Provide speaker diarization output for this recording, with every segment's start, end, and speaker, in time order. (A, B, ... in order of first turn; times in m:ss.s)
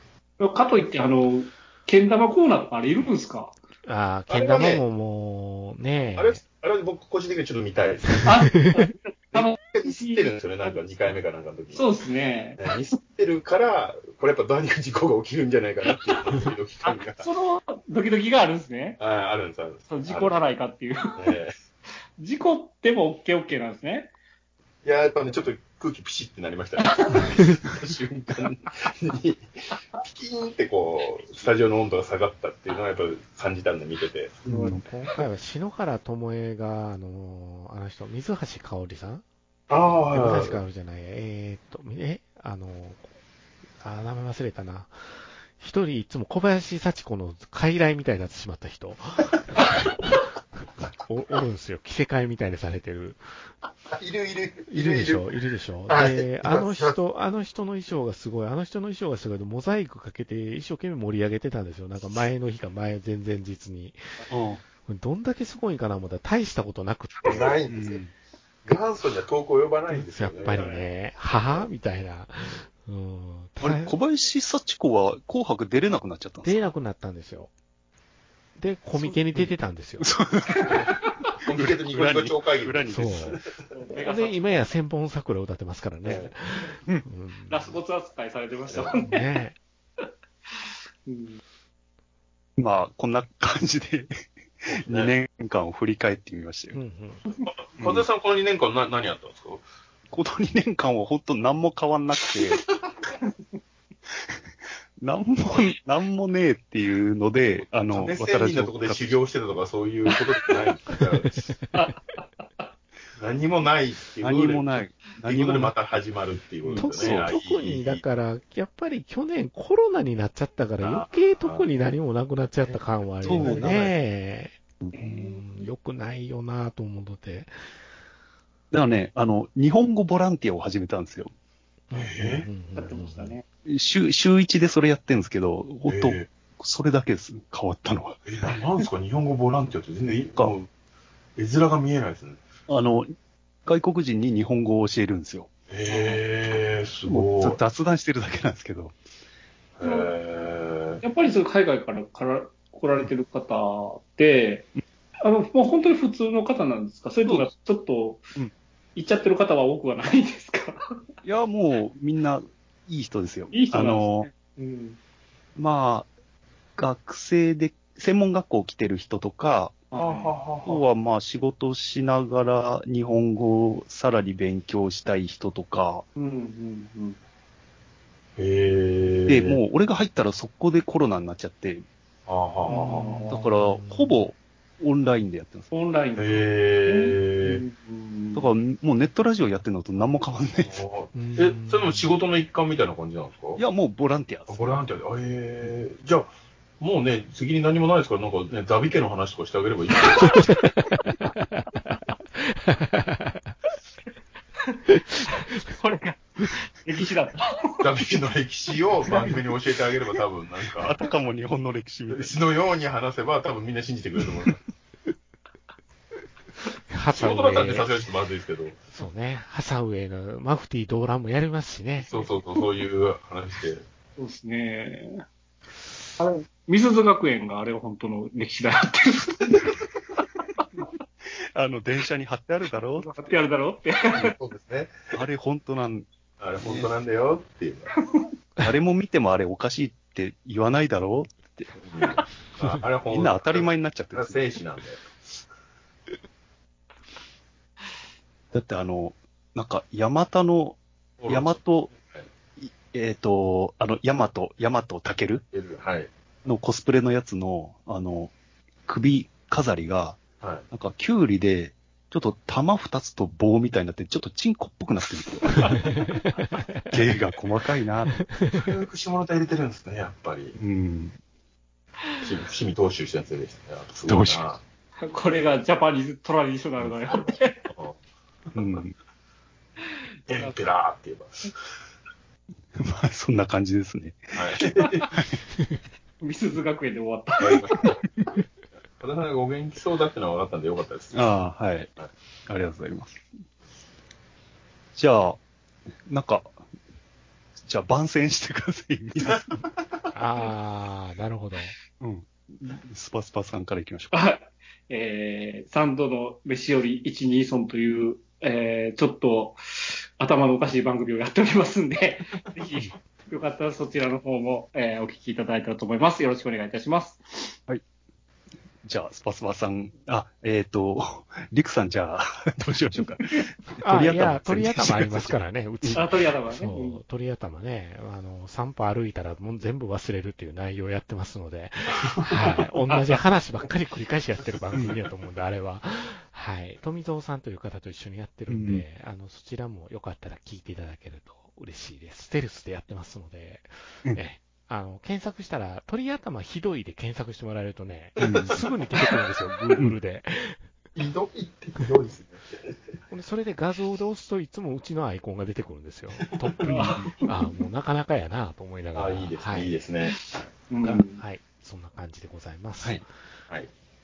0:00.4-0:03.6 A
0:03.8-0:06.4 B
0:04.3-0:04.8 C
0:06.2-0:08.5 C
0:08.2-0:10.2 A
0:09.3-0:11.8 C
0:11.7-0:12.6 A
0:12.6-0:17.2 C
0:16.8-0:19.0 A
0:19.0-0:20.4 C
0:19.9-0:21.3 A
0:21.2-0:21.5 C
0:22.2-0:24.1 A
0:24.8-0:29.5 C
0:30.0-0:34.4 C
0:34.5-0:34.8 D
0:34.5-0:39.2 B
0:39.7-0:40.6 C
0:40.1-0:43.1 B
0:43.8-0:45.0 B
0:45.6-0:50.2 B
0:51.0-0:53.2 B
0:53.9-0:55.2 C
0:54.7-1:04.0 B
0:55.9-0:57.0 C
1:04.3-1:04.6 D
1:04.8-1:07.5 B
1:07.2-1:08.0 C
1:07.7-1:08.1 D
1:08.6-1:10.8 C
1:09.9-1:14.0 B
1:13.6-1:16.6 D
1:16.4-1:17.5 B
1:18.6-1:20.1 B
1:19.3-1:20.8 D
1:21.4-1:23.6 C
1:21.5-1:23.4 D
1:22.9-1:23.4 B
1:23.7-1:24.4 A
1:24.0-1:27.8 B
1:27.5-1:29.3 A
1:28.7-1:29.0 C
1:28.9-1:29.6 B
1:30.5-1:31.4 A
1:32.6-1:34.1 D
1:34.6-1:36.8 D
1:34.7-1:35.1 C
1:36.7-1:37.2 B
1:37.4-1:39.6 C
1:37.8-1:38.0 D
1:40.1-1:42.6 D
1:44.1-1:44.4 D
1:45.0-1:49.2 D
1:47.5-1:51.5 C
1:51.7-1:52.6 A
1:53.2-1:58.0 C
1:54.2-1:55.7 D
1:56.6-1:57.4 D
1:56.8-2:07.5 B
2:00.8-2:01.7 C
2:03.2-2:03.9 D
2:03.3-2:03.6 C
2:04.9-2:05.6 A
2:08.7-2:11.3 D
2:11.9-2:13.4 B
2:11.9-2:12.5 C
2:12.8-2:13.4 A
2:13.6-2:18.3 D
2:15.8-2:16.3 C
2:18.2-2:20.7 C
2:21.4-2:22.4 C
2:22.7-2:23.1 D
2:23.6-2:25.5 D
2:25.7-2:27.6 C
2:25.9-2:26.2 A
2:27.1-2:28.9 D
2:29.8-2:31.0 C
2:29.8-2:30.1 A
2:31.0-2:34.7 A
2:35.2-2:38.3 A
2:37.2-2:37.5 D
2:38.9-2:40.8 A
2:41.2-2:44.3 D
2:43.5-2:45.0 A
2:45.6-2:46.1 D
2:46.8-2:49.8 D
2:49.9-2:50.3 A
2:50.0-2:50.8 C
2:50.6-2:56.0 D
2:56.2-2:57.2 A
2:58.4-2:59.6 C
2:59.3-3:01.8 D
3:02.3-3:03.3 C
3:02.6-3:03.4 A
3:03.3-3:05.7 D
3:03.4-3:04.2 B
3:05.7-3:08.4 A
3:06.2-3:07.6 C
3:08.3-3:10.8 D
3:10.6-3:13.6 C
3:11.1-3:12.1 B
3:13.6-3:14.8 D
3:14.5-3:16.3 C
3:16.8-3:20.5 C
3:20.5-3:20.8 B
3:21.4-3:21.6 B
3:22.4-3:23.5 B
3:24.9-3:25.4 B
3:25.6-3:27.9 A
3:27.8-3:30.9 C
3:29.1-3:29.4 A
3:30.8-3:32.4 D
3:32.1-3:34.6 C
3:36.9-3:37.9 B
3:37.1-3:38.8 C
3:38.9-3:42.2 B
3:42.0-3:43.8 C
3:44.2-3:45.2 A
3:46.2-3:49.6 A
3:51.5-3:53.1 D
3:53.0-3:54.3 A
3:54.1-3:55.0 C
3:55.1-3:56.1 D
3:56.4-3:57.9 C
3:56.6-3:56.9 D
3:58.6-4:01.7 D
4:01.8-4:05.0 C
4:03.1-4:04.4 D
4:08.5-4:11.9 D
4:11.2-4:11.6 C
4:12.6-4:15.4 D
4:15.5-4:16.1 C
4:16.4-4:18.3 D
4:18.8-4:26.0 D
4:25.6-4:26.5 B
4:26.9-4:28.2 D
4:28.3-4:28.7 B
4:28.5-4:30.6 C
4:30.6-4:31.2 D
4:32.2-4:34.6 C
4:34.0-4:34.5 D
4:35.0-4:37.6 A
4:36.8-4:38.0 C
4:38.5-4:39.0 D
4:40.3-4:41.5 C
4:42.7-4:45.4 D
4:44.3-4:45.1 C
4:44.8-4:45.1 A
4:46.2-4:47.7 A
4:47.4-4:48.0 C
4:49.0-4:51.3 C
4:51.1-4:51.9 D
4:52.5-4:53.2 D
4:55.0-4:55.4 D
4:56.0-4:56.5 D
4:57.6-4:59.5 D
5:00.1-5:01.7 B
5:02.0-5:04.1 D
5:04.1-5:17.6 A
5:18.8-5:26.0 D
5:23.8-5:50.6 B
5:25.9-5:27.0 A
5:38.5-5:38.8 D
5:48.2-5:48.6 D
5:51.0-5:52.8 C
5:53.1-5:59.7 B
5:56.4-5:57.2 C
5:56.6-5:57.3 A
5:58.9-6:00.2 C
6:00.1-6:01.2 A
6:00.8-6:03.1 B